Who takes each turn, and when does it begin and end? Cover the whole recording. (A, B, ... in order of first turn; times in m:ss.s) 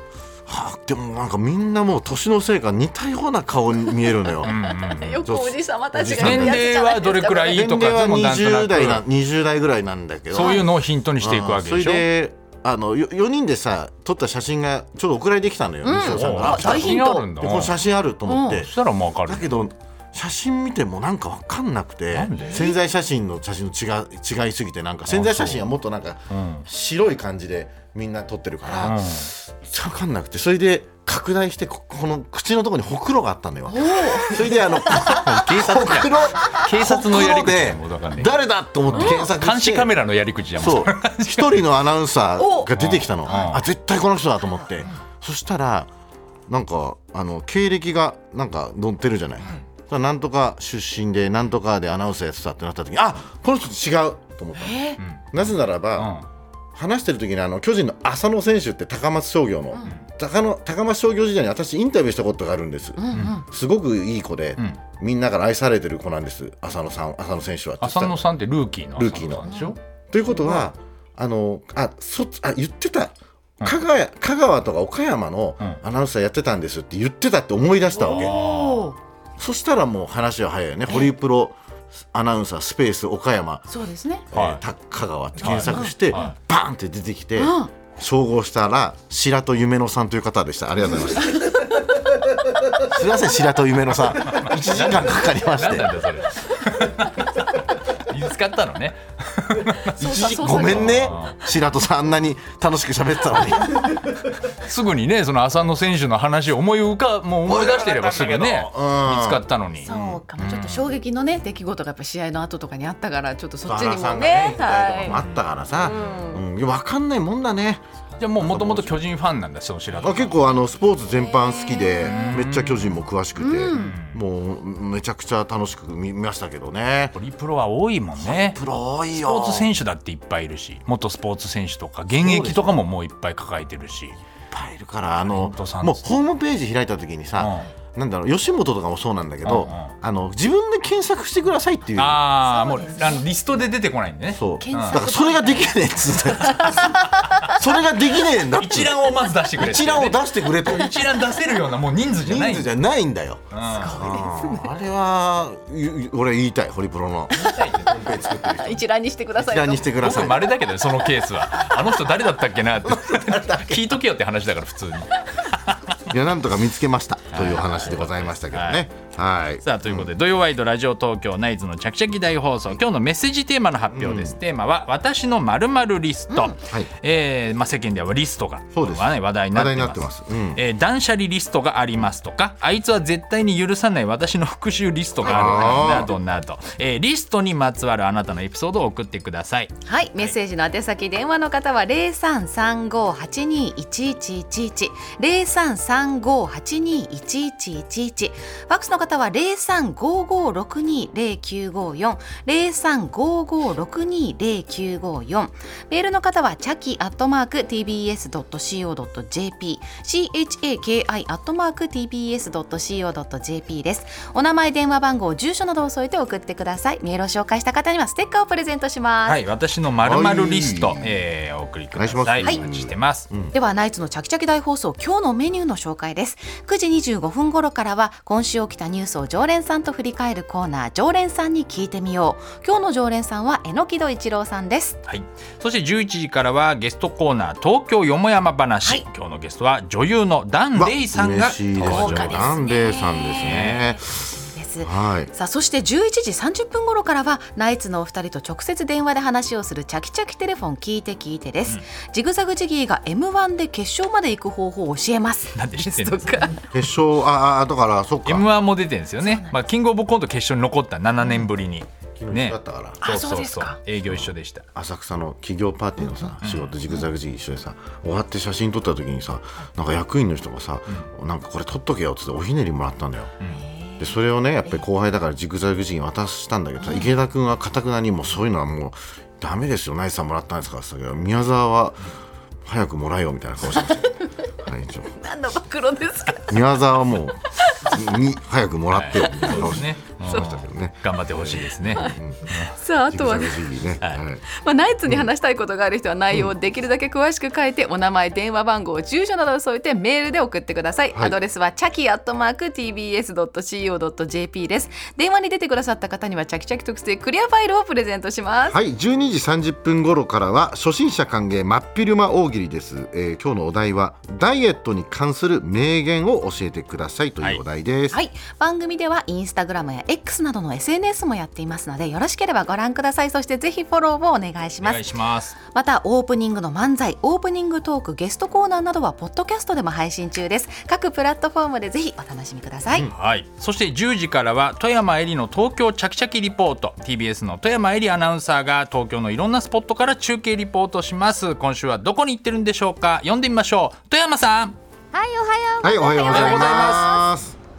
0:00.5-0:04.7 A
0:04.4-0:07.6 B
0:04.4-0:05.3 C
0:05.2-0:06.7 A
0:06.0-0:09.0 C
0:07.5-0:10.7 A
0:10.3-0:12.1 C
0:10.4-0:10.6 B
0:11.2-0:18.7 A
0:15.8-0:17.3 B
0:16.0-0:17.8 C
0:18.3-0:18.6 B
0:18.5-0:19.5 C
0:19.3-0:39.9 A
0:22.1-0:22.7 C
0:22.4-0:22.8 B
0:25.1-0:25.7 C
0:26.3-0:26.7 C
0:28.8-0:29.3 C
0:33.7-0:35.2 B
0:35.1-0:38.4 C
0:38.9-0:41.7 C
0:38.9-0:39.2 B
0:40.6-0:45.9 A
0:42.4-0:42.7 B
0:42.7-0:43.6 C
0:43.3-0:43.6 B
0:46.5-0:56.1 A
0:54.6-0:55.0 B
0:55.0-0:55.2 C
0:56.0-0:56.3 C
0:56.8-1:08.2 A
1:03.0-1:03.4 B
1:03.1-1:03.4 C
1:07.8-1:09.8 C
1:09.0-1:18.4 A
1:09.5-1:09.8 B
1:10.3-1:10.7 B
1:17.9-1:19.0 B
1:18.0-1:18.9 C
1:19.4-1:21.6 A
1:22.1-1:23.7 A
1:23.7-1:24.3 B
1:24.3-1:31.5 A
1:24.3-1:24.6 C
1:25.4-1:26.4 C
1:25.5-1:26.3 B
1:27.4-1:27.7 B
1:32.7-1:35.9 A
1:34.3-1:41.4 C
1:40.0-1:41.2 B
1:40.0-1:44.1 A
1:44.5-1:50.9 C
1:47.5-1:50.2 A
1:49.9-1:55.2 B
1:53.6-1:57.8 A
1:55.8-1:56.4 B
1:58.2-2:00.4 C
1:58.4-1:59.0 A
2:00.0-2:07.2 A
2:01.4-2:02.4 B
2:02.0-2:03.0 C
2:03.4-2:04.0 B
2:03.7-2:04.2 C
2:07.2-2:08.6 C
2:08.2-2:09.7 A
2:09.2-2:14.2 C
2:12.2-2:12.8 A
2:14.5-2:22.2 A
2:15.2-2:16.0 C
2:17.4-2:17.7 C
2:19.4-2:19.9 C
2:22.0-2:25.0 C
2:22.5-2:23.3 B
2:24.3-2:30.9 A
2:24.6-2:27.2 B
2:26.4-2:27.5 C
2:28.5-2:32.7 C
2:32.2-2:38.8 A
2:33.5-2:34.1 C
2:33.7-2:34.8 B
2:37.4-2:38.0 C
2:37.4-2:37.9 B
2:38.4-2:40.0 B
2:39.4-2:40.5 A
2:40.0-2:45.9 C
2:42.8-2:44.0 A
2:46.1-2:50.1 A
2:47.3-2:48.8 C
2:49.6-3:10.3 C
2:53.9-2:54.4 A
2:56.3-2:56.6 B
2:56.6-2:56.9 A
2:58.7-3:00.6 A
3:05.2-3:06.0 B
3:05.2-3:06.1 A
3:09.9-3:39.4 B
3:39.2-3:43.3 C
3:40.0-3:41.2 A
3:42.0-3:43.5 A
3:43.5-3:55.0 B
3:55.1-4:02.6 C
4:00.8-4:05.3 A
4:01.8-4:16.7 B
4:03.4-4:03.8 C
4:15.5-4:16.6 C
4:16.7-4:18.5 A
4:18.2-4:24.6 C
4:19.2-4:19.6 B
4:21.2-4:21.5 B
4:22.2-4:23.0 A
4:23.0-4:23.8 B
4:24.1-4:33.4 A
4:26.0-4:26.3 B
4:26.4-4:26.7 C
4:33.5-4:34.1 B
4:34.0-4:42.1 A
4:36.8-4:37.1 B
4:42.6-4:45.2 A
4:45.2-4:46.7 B
4:46.5-4:54.4 A
4:47.7-4:48.1 B
4:48.9-4:52.8 C
4:49.4-4:49.8 B
4:51.9-4:53.7 B
4:54.5-5:08.8 B
5:08.7-5:18.2 A
5:18.1-5:25.1 B
5:24.8-5:25.6 C
5:25.6-5:33.1 B
5:33.1-5:44.8 C
5:45.1-5:47.3 D
5:45.8-5:47.6 A
5:46.3-5:47.1 C